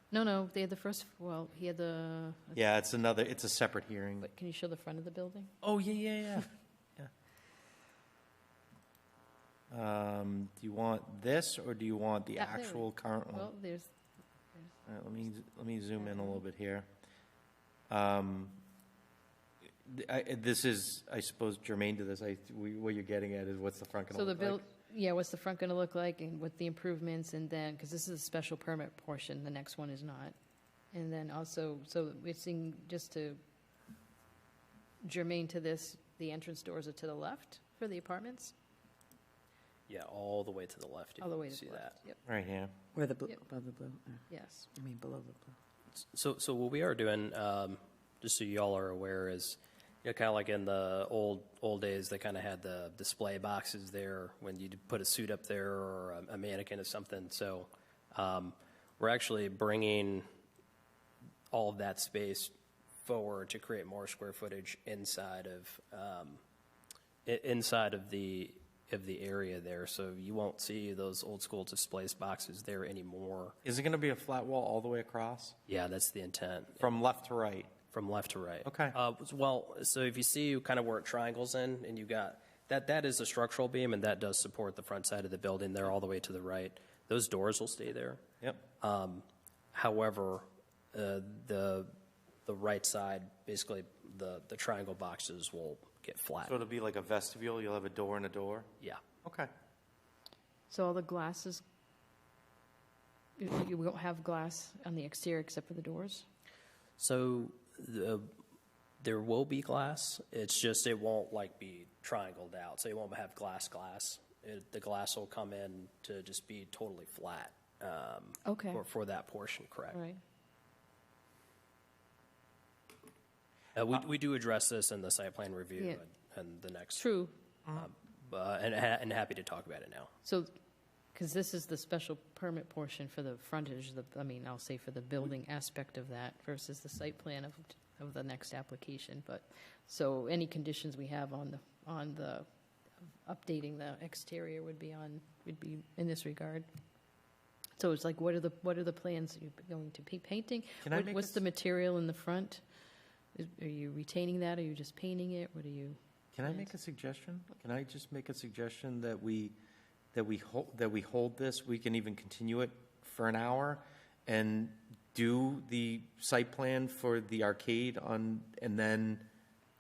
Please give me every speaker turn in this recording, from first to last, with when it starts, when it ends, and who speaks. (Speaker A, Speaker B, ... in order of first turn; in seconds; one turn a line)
Speaker A: 0.1-2.6
Speaker B: 2.5-4.3
Speaker A: 4.2-5.5
Speaker B: 5.6-7.1
Speaker B: 9.7-13.5
Speaker A: 12.4-13.9
Speaker B: 14.8-16.9
Speaker A: 16.1-16.4
Speaker B: 17.9-18.5
Speaker B: 19.9-24.6
Speaker A: 24.1-30.3
Speaker A: 30.9-33.4
Speaker A: 35.0-38.5
Speaker C: 39.9-42.0
Speaker A: 41.2-42.2
Speaker B: 42.2-42.7
Speaker D: 42.9-44.2
Speaker A: 44.3-44.7
Speaker D: 44.7-45.5
Speaker C: 46.0-60.2
Speaker C: 61.5-62.5
Speaker C: 63.0-66.4
Speaker C: 67.2-73.5
Speaker B: 73.6-75.6
Speaker C: 75.7-76.9
Speaker B: 76.8-77.7
Speaker C: 77.9-88.2
Speaker B: 78.6-79.0
Speaker C: 88.8-91.9
Speaker C: 92.4-96.5
Speaker B: 96.4-98.7
Speaker B: 99.2-99.5
Speaker A: 100.7-101.6
Speaker A: 103.4-106.2
Speaker C: 107.0-108.3
Speaker C: 109.0-120.0
Speaker A: 118.4-118.8
Speaker A: 119.9-120.2
Speaker C: 123.7-127.1
Speaker A: 127.0-127.3
Speaker C: 127.7-130.1
Speaker A: 131.1-142.4
Speaker A: 143.2-146.7
Speaker A: 147.8-152.6
Speaker B: 150.8-151.4
Speaker A: 153.3-156.7
Speaker B: 156.3-159.6
Speaker B: 160.1-169.2